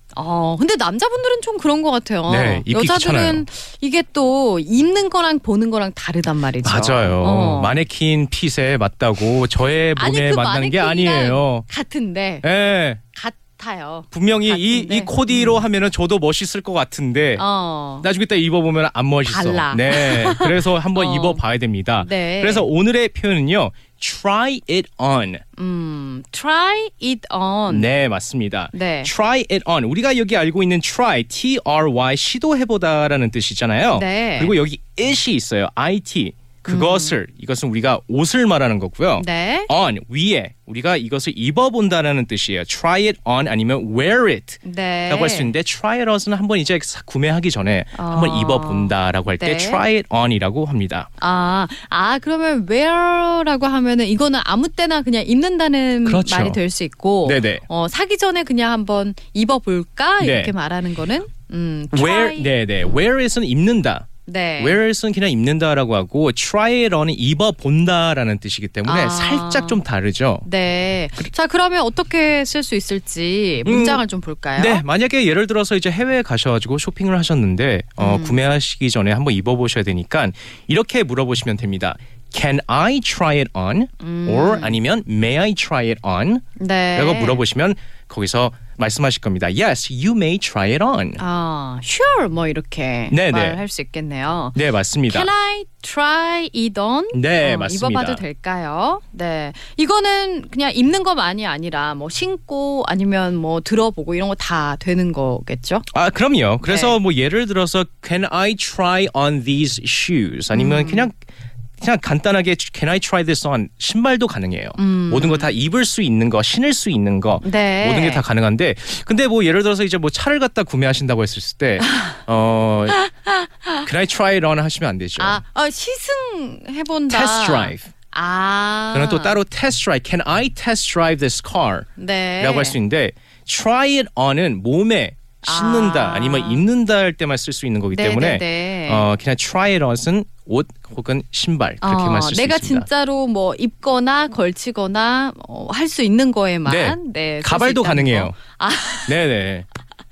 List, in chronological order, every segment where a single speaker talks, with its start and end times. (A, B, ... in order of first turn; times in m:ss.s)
0:00.1-0:07.7 A
0:02.3-0:03.4 B
0:06.6-0:11.6 B
0:10.0-0:12.5 A
0:12.4-0:13.0 B
0:13.1-0:15.6 A
0:14.1-0:17.4 B
0:17.4-0:18.1 A
0:18.0-0:25.4 B
0:19.2-0:21.4 A
0:22.0-0:22.7 A
0:25.6-0:27.9 A
0:27.7-0:51.1 B
0:28.7-0:29.1 A
0:33.9-0:34.5 A
0:36.6-0:37.2 A
0:39.2-0:39.7 A
0:44.6-0:45.5 A
0:47.9-0:49.8 A
0:51.2-1:03.0 A
0:56.0-0:56.6 B
0:57.2-0:57.6 B
1:00.2-1:00.5 B
1:01.9-1:04.1 B
1:04.2-1:04.8 A
1:04.6-1:10.4 B
1:08.8-1:09.8 A
1:10.4-1:14.8 A
1:13.6-1:14.0 B
1:14.6-1:26.4 B
1:18.0-1:18.4 A
1:24.0-1:24.8 A
1:26.6-1:27.4 A
1:26.9-1:31.2 B
1:31.2-1:34.6 A
1:33.1-1:33.6 B
1:34.5-1:35.3 B
1:35.1-1:45.9 A
1:37.1-1:38.2 B
1:45.9-1:51.1 B
1:46.6-1:47.0 A
1:50.5-1:51.1 A
1:51.8-2:03.0 B
1:54.8-1:55.5 A
1:57.4-1:58.2 A
2:01.8-2:02.2 A
2:02.9-2:03.3 A
2:03.8-2:05.4 B
2:05.2-2:09.4 A
2:07.1-2:07.9 B
2:08.9-2:11.8 B
2:12.0-2:12.8 A
2:12.4-2:22.9 B
2:15.4-2:16.6 A
2:17.9-2:19.0 A
2:21.8-2:29.2 A
2:26.6-2:28.3 B
2:29.1-2:29.6 B